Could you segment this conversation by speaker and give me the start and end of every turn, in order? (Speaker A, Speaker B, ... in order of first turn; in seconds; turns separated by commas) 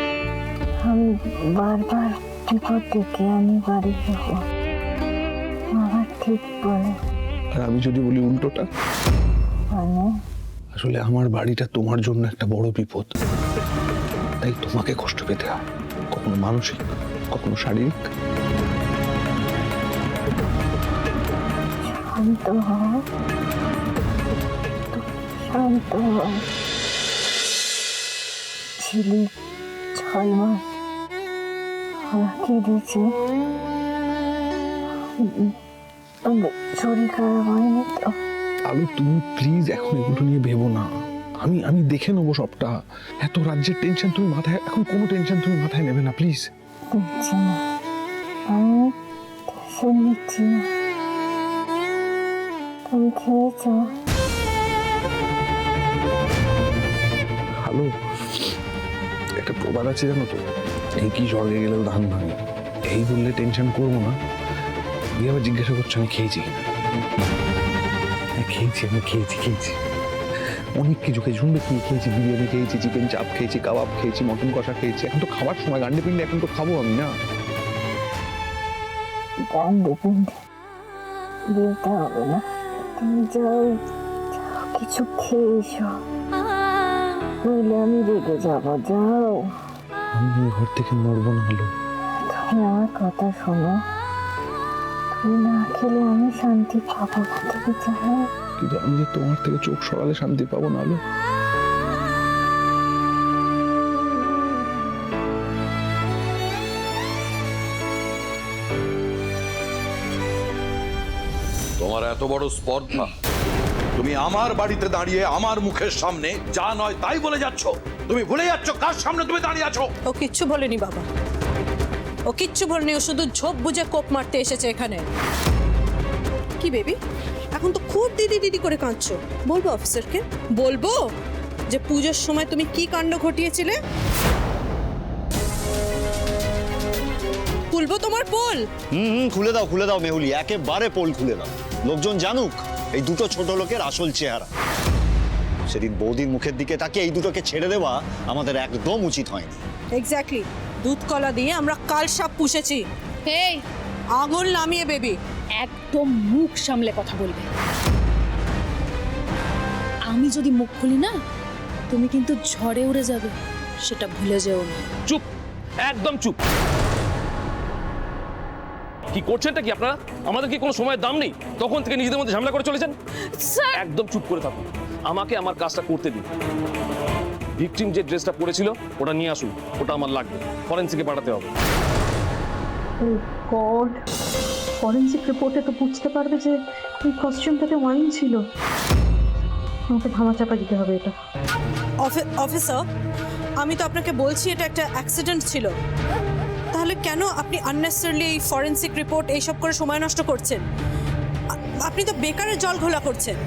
Speaker A: 0.8-4.4, Speaker A: 5.7-7.0, Speaker B: 7.5-8.7, Speaker A: 9.7-10.1, Speaker B: 10.8-13.1, Speaker B: 14.4-15.6, Speaker B: 16.1-17.9, Speaker A: 21.9-23.0, Speaker A: 24.9-26.4, Speaker A: 28.8-29.3, Speaker A: 29.9-30.6, Speaker A: 32.1-33.1, Speaker A: 35.2-35.5, Speaker A: 36.3-38.1, Speaker B: 38.7-40.9, Speaker B: 41.4-46.5, Speaker A: 46.9-47.6, Speaker A: 48.5-48.9, Speaker A: 49.5-50.6, Speaker A: 52.9-53.9, Speaker B: 57.6-58.5, Speaker B: 59.4-60.4, Speaker B: 61.0-64.1, Speaker B: 65.2-66.5, Speaker B: 68.4-69.8, Speaker B: 70.8-77.1, Speaker A: 79.5-80.3, Speaker A: 81.5-82.4, Speaker A: 83.0-83.8, Speaker A: 84.4-85.9, Speaker A: 87.5-89.5, Speaker B: 90.2-91.7, Speaker A: 92.3-93.8, Speaker A: 95.1-98.3, Speaker B: 98.6-101.0, Speaker C: 111.8-113.1, Speaker C: 114.0-119.9, Speaker D: 120.1-121.0, Speaker D: 122.3-125.0, Speaker D: 126.6-127.0, Speaker D: 127.5-131.0, Speaker D: 131.7-133.8, Speaker D: 137.7-138.7, Speaker E: 138.9-144.5, Speaker E: 145.7-149.6, Speaker D: 149.9-152.8, Speaker F: 153.3-153.6, Speaker D: 154.2-155.2, Speaker F: 155.7-157.4, Speaker F: 160.2-161.1, Speaker F: 161.9-163.3, Speaker F: 164.0-164.7, Speaker G: 165.8-166.4, Speaker G: 169.1-172.9, Speaker G: 173.7-176.3, Speaker G: 177.6-181.5, Speaker H: 183.0-184.0, Speaker H: 184.8-188.4, Speaker H: 189.9-191.1, Speaker D: 192.0-192.8, Speaker D: 193.6-195.7, Speaker D: 196.7-200.6, Speaker D: 201.8-203.4